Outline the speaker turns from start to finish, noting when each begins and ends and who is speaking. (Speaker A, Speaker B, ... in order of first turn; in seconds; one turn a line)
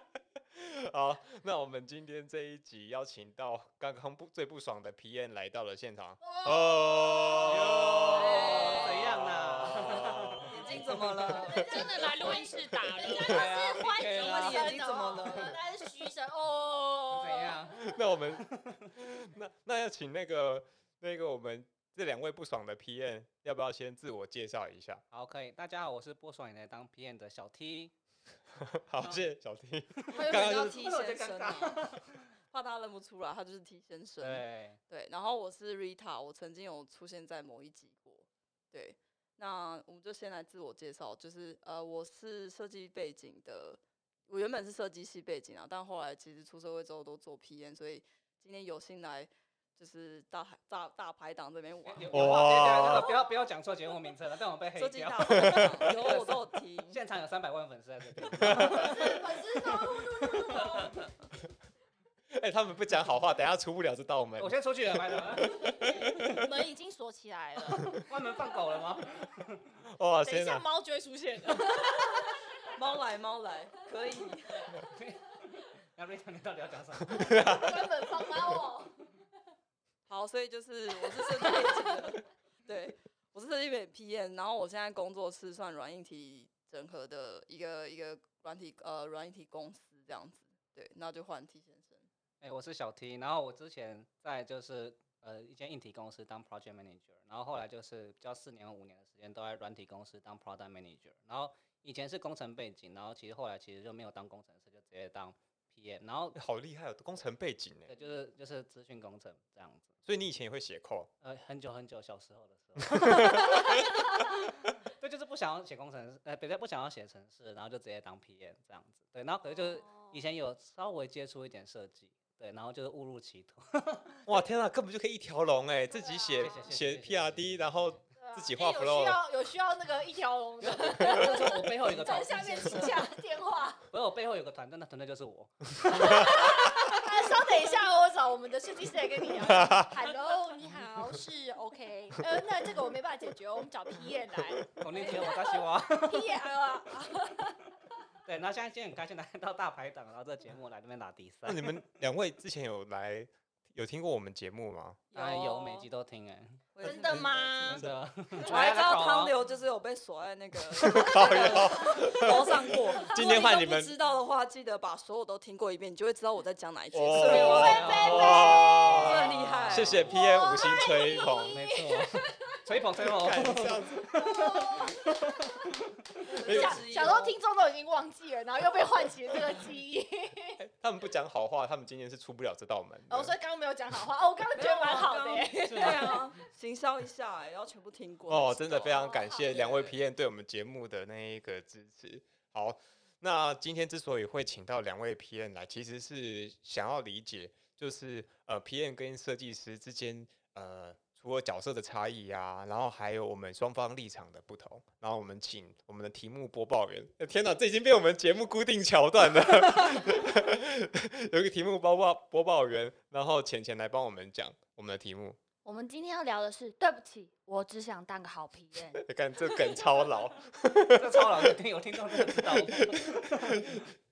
Speaker A: 0.5-10.5
Speaker B: 6.2-8.9
Speaker C: 7.4-11.6
Speaker D: 10.4-11.7
Speaker B: 11.5-17.6
Speaker E: 11.6-13.5
Speaker C: 13.3-14.8
Speaker D: 13.8-15.6
Speaker C: 17.1-18.9
Speaker A: 17.7-25.0
Speaker C: 25.1-27.9
Speaker A: 28.6-30.8
Speaker C: 30.0-32.2
Speaker D: 30.1-32.0
Speaker D: 32.5-52.5
Speaker C: 34.2-34.8
Speaker C: 51.9-60.0
Speaker A: 52.1-53.1
Speaker D: 54.8-57.0
Speaker A: 55.4-55.7
Speaker A: 58.3-59.2
Speaker B: 58.7-60.9
Speaker C: 60.5-60.8
Speaker A: 62.3-64.6
Speaker C: 64.4-65.7
Speaker A: 65.4-66.4
Speaker B: 66.2-68.0
Speaker C: 67.9-69.7
Speaker A: 69.9-70.6
Speaker B: 70.2-72.6
Speaker D: 72.7-74.7
Speaker C: 74.9-77.4
Speaker A: 77.1-78.0
Speaker B: 77.2-79.0
Speaker D: 80.1-92.1
Speaker B: 81.4-82.2
Speaker C: 92.4-106.4
Speaker A: 106.3-107.9
Speaker C: 107.9-109.9
Speaker A: 110.0-111.1
Speaker C: 111.2-113.8
Speaker A: 112.9-113.8
Speaker C: 114.9-124.2
Speaker B: 119.5-120.2
Speaker A: 124.2-129.2
Speaker B: 126.0-126.5
Speaker C: 126.4-128.0
Speaker B: 128.2-133.8
Speaker C: 130.6-133.1
Speaker C: 133.9-136.3
Speaker B: 135.9-147.6
Speaker A: 139.4-140.0
Speaker C: 144.8-146.3
Speaker C: 148.2-151.8
Speaker A: 151.4-155.0
Speaker B: 155.1-155.9
Speaker C: 155.1-159.3
Speaker D: 156.7-157.5
Speaker B: 156.8-157.8
Speaker D: 158.4-170.1
Speaker A: 160.8-163.9
Speaker B: 161.2-162.3
Speaker A: 166.9-171.6
Speaker C: 167.1-170.2
Speaker B: 167.3-169.2
Speaker B: 170.1-172.4
Speaker C: 171.5-176.2
Speaker A: 173.0-174.1
Speaker B: 174.1-175.5
Speaker D: 176.3-177.3
Speaker A: 176.3-176.8
Speaker B: 176.4-180.6
Speaker A: 180.6-183.3
Speaker B: 183.1-186.3
Speaker D: 184.5-190.0
Speaker C: 185.6-186.2
Speaker A: 188.3-215.4
Speaker B: 188.7-189.5
Speaker E: 215.6-219.0
Speaker A: 218.9-221.5
Speaker C: 220.9-223.8
Speaker A: 222.1-223.8